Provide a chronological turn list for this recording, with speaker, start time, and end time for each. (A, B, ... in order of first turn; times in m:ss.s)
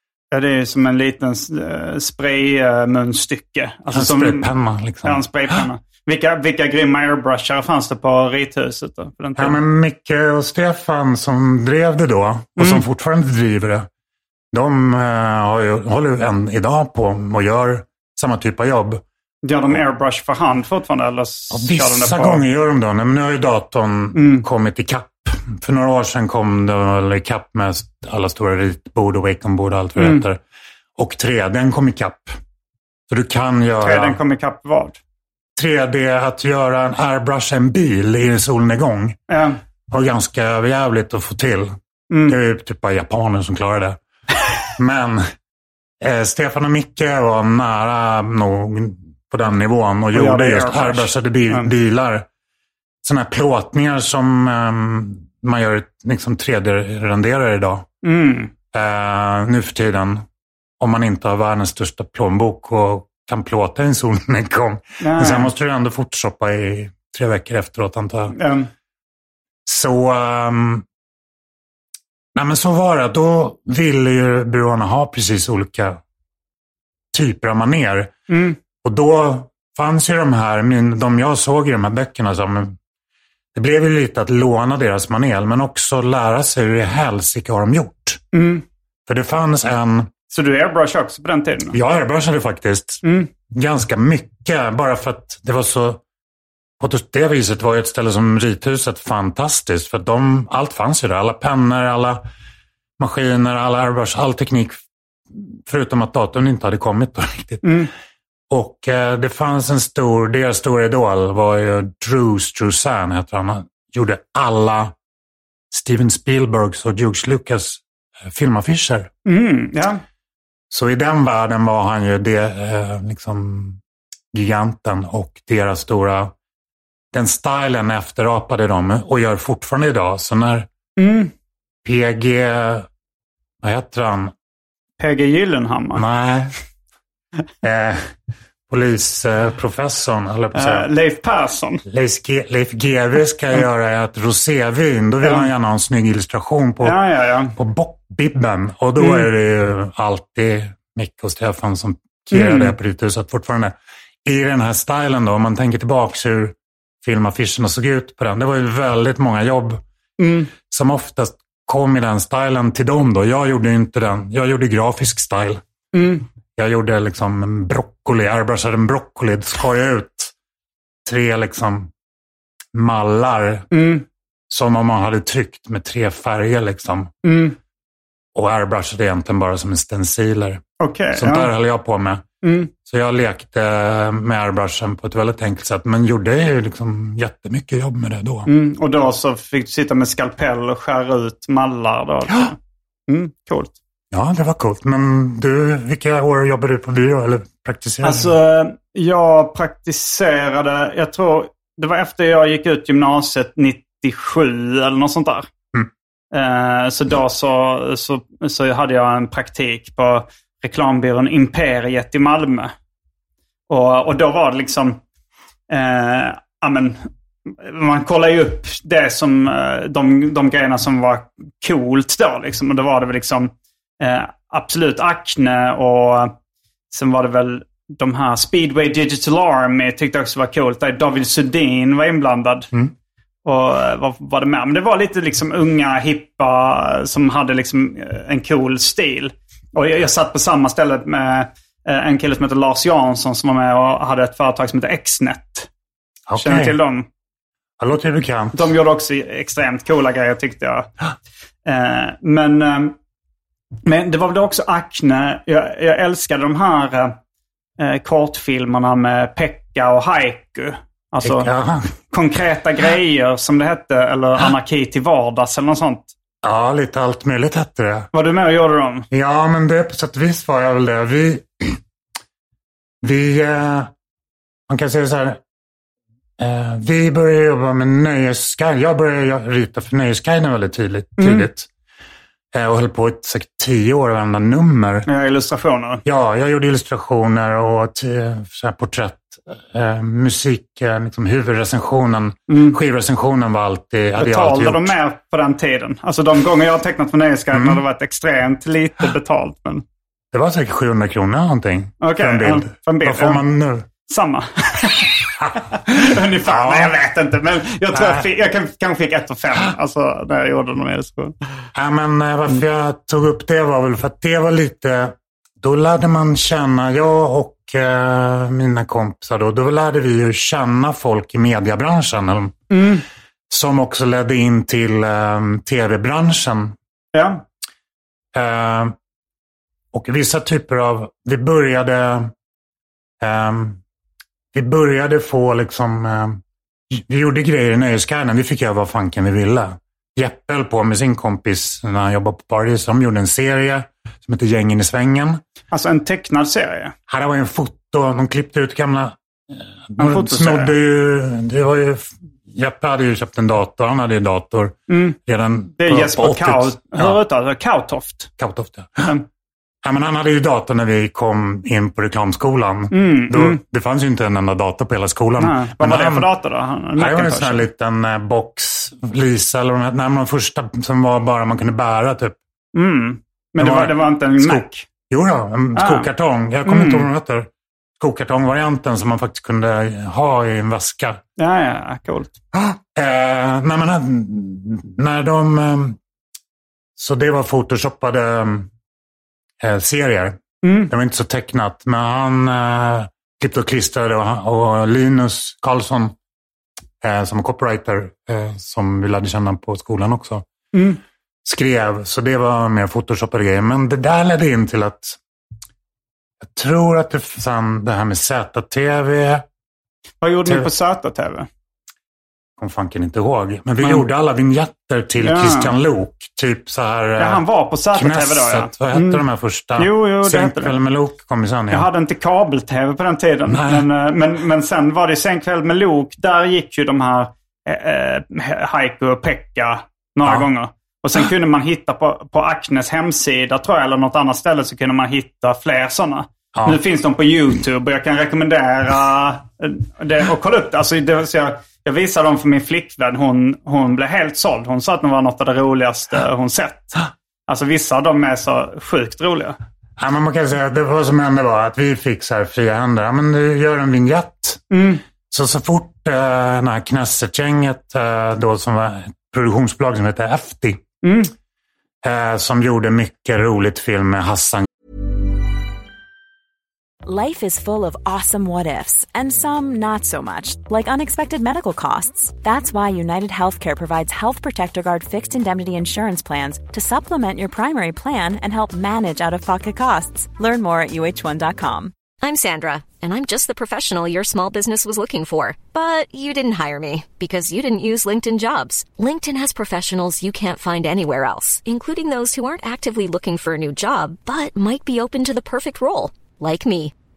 0:00.3-0:04.5 A
0:03.9-0:05.2 B
0:05.0-0:09.6 A
0:09.4-0:13.9 B
0:12.6-0:12.8 A
0:14.5-0:19.0 B
0:19.4-0:22.4 A
0:21.5-0:30.4 B
0:24.1-0:24.4 A
0:30.0-0:30.2 A
0:31.0-0:32.4 B
0:33.1-0:34.2 B
0:33.8-0:35.0 A
0:35.6-0:39.2 B
0:39.3-0:39.6 A
0:39.9-0:44.0 B
0:42.1-0:42.4 A
0:44.8-0:45.3 B
0:46.0-0:52.3 B
0:50.1-0:51.7 A
0:53.0-0:57.9 B
0:58.0-0:58.5 A
0:58.7-1:00.2 B
1:00.8-1:08.4 B
1:05.0-1:05.5 A
1:08.3-1:08.7 A
1:09.6-1:10.8 B
1:12.3-1:16.0 B
1:17.1-1:18.1 B
1:18.3-1:18.6 A
1:18.8-1:22.8 B
1:23.5-1:28.2 B
1:28.3-1:28.6 A
1:29.0-1:30.1 B
1:30.3-1:31.8 A
1:31.7-1:36.0 B
1:33.0-1:33.3 A
1:36.8-1:42.2 B
1:43.0-1:44.8 B
1:45.3-1:47.8 B
1:47.6-1:47.9 A
1:48.5-1:54.9 B
1:55.7-1:59.1 B
1:59.2-2:00.0 A
2:00.7-2:03.8 B
2:04.3-2:06.3 B
2:07.1-2:10.7 B
2:11.0-2:11.3 A
2:11.8-2:12.9 B
2:13.6-2:14.3 B
2:15.0-2:16.0 A
2:15.9-2:16.5 B
2:17.6-2:18.1 B
2:18.7-2:20.9 B
2:20.5-2:21.8 A
2:21.8-2:27.0 B
2:25.2-2:25.5 A
2:26.8-2:27.5 A
2:27.5-2:39.8 B
2:29.0-2:29.3 A
2:32.3-2:32.8 A
2:40.2-2:40.5 A
2:40.5-2:45.6 B
2:45.9-2:46.2 A
2:46.5-2:50.3 B
2:51.0-2:51.9 B
2:52.7-2:53.7 B
2:53.7-2:54.0 A
2:54.5-2:57.1 B
2:57.2-2:57.6 A
2:58.3-3:00.6 B
3:00.8-3:01.5 A
3:01.1-3:02.2 B
3:02.4-3:02.7 A
3:02.8-3:08.5 B
3:08.4-3:12.6 A
3:13.1-3:13.7 A
3:14.1-3:18.3 B
3:18.0-3:25.5 A
3:26.3-3:32.7 A
3:33.7-3:35.0 A
3:35.7-3:46.3 A
3:46.9-3:52.7 A
3:53.4-4:05.7 A
4:06.3-4:06.8 B
4:06.4-4:07.0 A
4:07.8-4:08.6 B
4:08.5-4:10.9 A
4:11.6-4:12.9 A
4:13.8-4:17.2 A
4:17.8-4:21.5 A
4:21.2-4:22.0 B
4:22.1-4:26.1 A
4:26.4-4:28.1 B
4:28.1-4:29.1 A
4:29.1-4:31.8 B
4:33.0-4:33.9 B
4:34.7-4:35.4 B
4:36.4-4:41.7 B
4:41.2-4:41.5 A
4:42.5-4:45.1 B
4:45.0-4:46.0 A
4:46.0-4:54.9 B
4:52.5-4:52.8 A
4:54.2-4:59.8 A
4:57.5-4:57.8 B
5:00.3-5:03.9 B
5:02.0-5:03.4 A
5:04.0-5:05.1 A
5:05.4-5:07.0 B
5:05.8-5:11.3 A
5:07.9-5:08.2 B
5:11.7-5:22.6 B
5:22.7-5:23.0 A
5:23.5-5:26.8 B
5:27.1-5:27.4 A
5:28.3-5:28.9 B
5:29.9-5:32.3 B
5:33.2-5:33.8 B
5:34.5-5:45.4 B
5:45.7-5:46.9 A
5:47.1-5:57.2 B
5:50.0-5:50.7 A
5:54.9-5:55.2 A
5:55.8-5:58.3 A
5:58.4-5:59.1 B
5:59.8-6:06.3 B
6:02.9-6:03.6 A
6:05.4-6:07.7 A
6:07.0-6:12.4 B
6:12.7-6:14.8 A
6:13.6-6:21.2 B
6:15.7-6:16.1 A
6:16.6-6:17.1 A
6:21.4-6:22.3 A
6:22.5-6:26.0 B
6:27.0-6:28.7 B
6:29.6-6:36.1 B
6:30.6-6:30.9 A
6:37.0-6:40.4 B
6:40.7-6:41.0 A
6:41.4-6:45.2 B
6:46.4-6:49.4 B
6:50.2-6:51.5 A
6:52.6-7:01.9 B
6:55.2-6:55.7 A
6:57.2-6:59.2 A
6:59.8-7:00.8 A
7:01.7-7:29.6 A
7:03.5-7:03.9 B
7:16.5-7:16.8 B
7:30.0-7:34.7 B
7:34.7-7:35.0 A
7:35.3-7:40.8 B
7:41.0-7:41.3 A
7:42.0-7:44.7 B
7:47.0-8:01.9 C
8:02.2-8:16.9 D